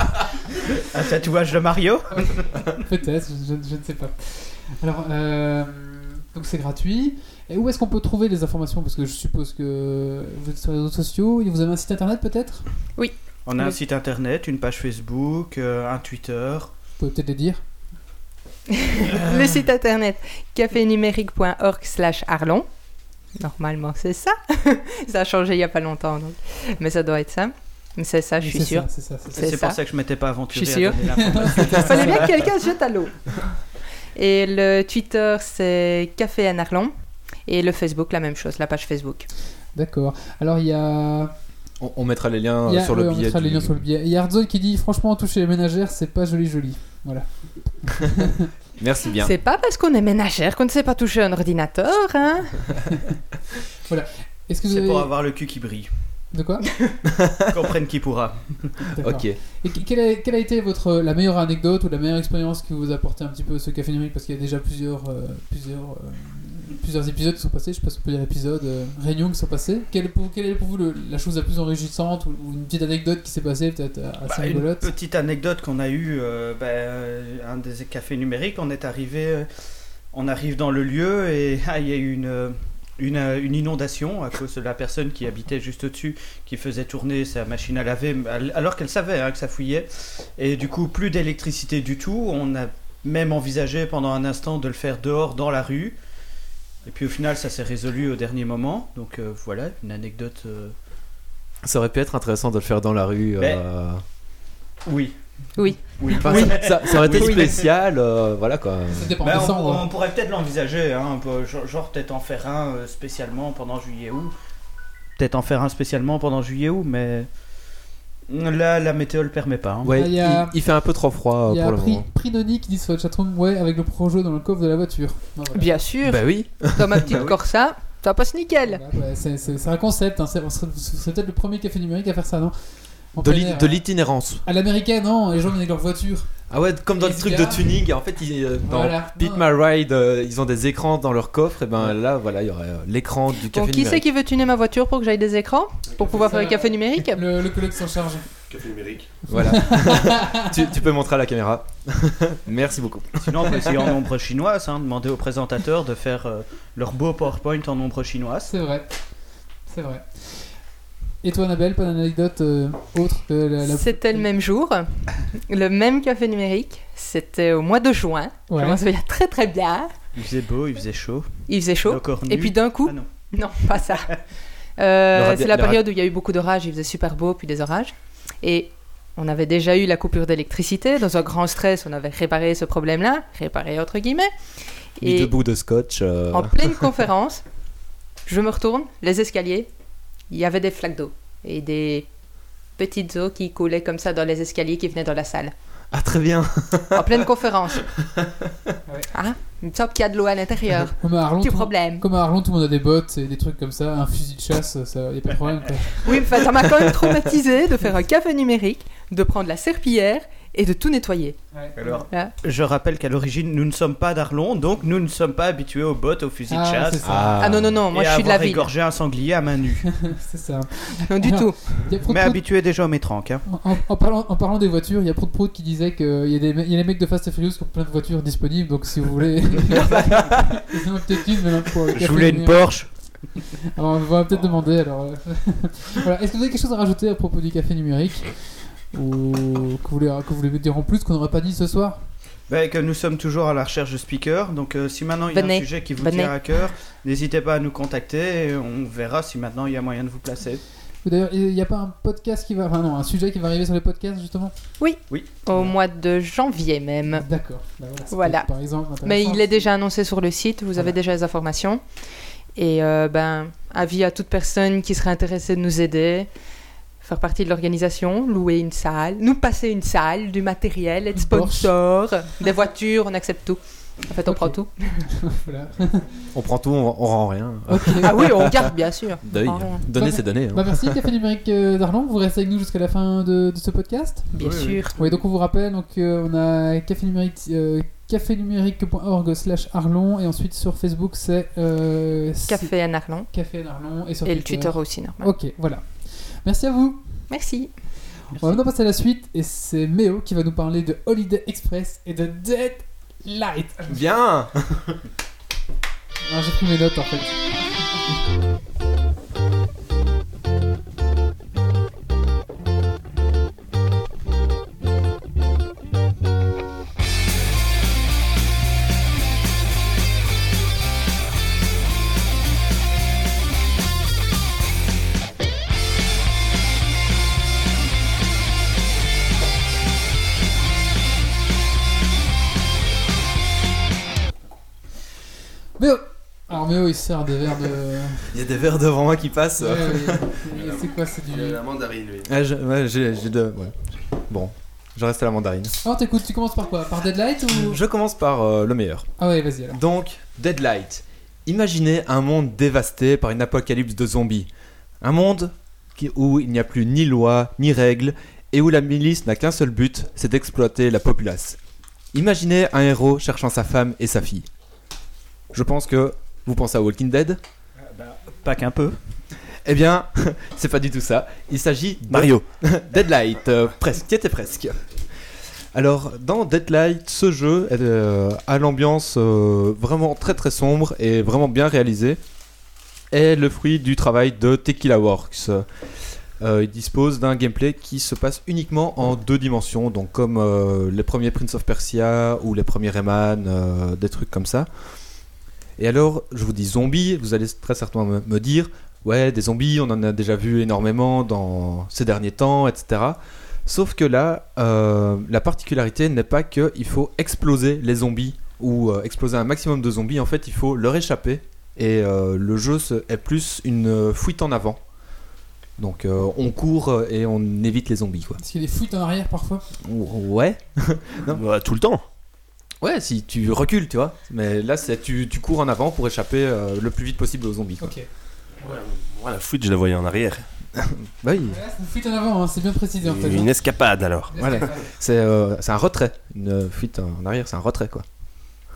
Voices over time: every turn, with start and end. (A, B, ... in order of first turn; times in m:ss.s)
0:00.8-0:02.7 A
0:02.7-0:12.6 B
0:13.0-0:13.8 C
0:13.5-0:16.7 A
0:17.0-0:17.6 B
0:18.7-0:22.7 C
0:19.1-0:19.4 A
0:23.4-0:29.8 C
0:28.4-0:29.4 B
0:29.3-0:32.4 A
0:30.5-0:33.4 C
0:31.2-0:32.2 B
0:34.1-0:36.9 C
0:37.5-0:39.3 C
0:39.7-0:41.3 B
0:41.8-0:43.8 D
0:42.6-0:48.5 B
0:48.8-0:49.3 D
0:49.2-0:52.8 C
0:53.8-0:55.1 B
0:54.7-0:55.9 A
0:56.3-0:56.7 B
0:57.0-0:57.5 D
0:57.5-0:58.8 A
0:58.9-1:14.9 B
0:59.0-0:59.4 D
1:14.2-1:19.5 A
1:20.1-1:36.0 A
1:36.8-1:40.7 A
1:41.6-1:44.0 D
1:44.8-1:45.1 A
1:45.6-1:47.5 C
1:46.0-1:47.7 A
1:46.1-1:49.2 D
1:48.9-1:49.8 B
1:49.2-1:54.3 A
1:55.2-1:57.3 A
1:58.3-1:59.9 A
1:59.8-2:02.0 D
1:59.9-2:00.6 B
2:01.5-2:05.7 B
2:05.5-2:08.8 C
2:06.0-2:07.3 D
2:08.6-2:12.6 B
2:13.1-2:13.8 B
2:13.2-2:14.4 D
2:14.4-2:16.3 B
2:16.5-2:24.0 D
2:17.0-2:17.8 B
2:18.6-2:19.5 B
2:23.5-2:27.2 C
2:26.0-2:28.3 B
2:28.5-2:29.2 E
2:29.3-2:33.8 D
2:29.3-2:30.5 B
2:33.2-2:38.5 A
2:38.5-2:38.9 B
2:39.7-2:40.5 B
2:41.2-2:44.2 B
2:43.6-2:49.9 C
2:48.5-2:48.8 B
2:50.1-2:51.3 A
2:51.5-2:54.2 C
2:51.8-2:53.0 A
2:54.8-3:04.3 C
2:55.1-2:55.8 D
3:05.0-3:05.3 C
3:05.0-3:06.9 D
3:06.3-3:07.4 C
3:08.2-3:09.7 C
3:10.3-3:12.1 C
3:12.8-3:15.5 C
3:15.9-3:17.3 D
3:16.9-3:17.9 C
3:17.8-3:18.7 D
3:19.1-3:22.0 C
3:21.0-3:26.2 B
3:26.0-3:31.4 C
3:31.5-3:32.0 B
3:31.8-3:37.2 A
3:36.5-3:37.4 B
3:37.0-3:37.8 D
3:37.4-3:38.7 C
3:37.9-3:39.9 A
3:39.9-3:42.4 B
3:40.9-3:41.8 C
3:42.0-3:43.4 A
3:43.4-3:53.0 B
3:51.9-3:52.9 A
3:53.7-4:02.0 B
4:02.5-4:10.6 A
4:05.3-4:06.3 C
4:11.0-4:14.5 B
4:14.8-4:17.2 C
4:15.1-4:15.7 A
4:17.2-4:19.4 B
4:18.1-4:18.5 C
4:19.0-4:21.8 C
4:22.6-4:26.3 C
4:27.0-4:35.0 C
4:31.2-4:31.7 B
4:34.3-4:34.5 B
4:35.1-4:36.2 B
4:36.3-4:38.7 D
4:37.7-4:38.1 B
4:37.8-4:39.9 C
4:39.2-4:41.0 D
4:39.9-4:52.7 B
4:44.3-4:44.9 C
4:44.5-4:44.7 D
4:52.5-4:53.3 C
4:53.3-4:57.2 B
4:54.2-4:55.3 C
4:57.3-4:57.7 C
4:58.3-5:04.1 B
5:03.9-5:05.0 D
5:06.2-5:08.0 B
5:35.8-5:38.4 B
5:38.3-5:40.3 D
5:39.6-5:41.6 B
5:40.4-5:42.3 E
5:42.2-5:45.8 D
5:45.8-5:47.8 B
5:47.5-5:49.1 D
5:49.2-5:49.8 B
5:49.7-5:54.5 D
5:55.0-6:01.6 D
6:02.1-6:04.5 D
6:05.5-6:07.4 D
6:07.8-6:09.0 A
6:09.6-6:14.8 D
6:12.1-6:12.4 E
6:15.7-6:22.2 D
6:23.1-6:25.6 D
6:26.4-6:34.7 D
6:35.8-6:54.8 D
6:55.8-6:58.4 D
6:58.4-6:59.6 B
6:59.8-7:01.4 D
7:01.3-7:02.0 E
7:02.8-7:07.9 D
7:07.8-7:08.0 B
7:08.6-7:10.4 E
7:10.8-7:11.6 D
7:11.5-7:13.5 B
7:13.0-7:14.6 E
7:14.3-7:14.8 B
7:14.4-7:18.0 D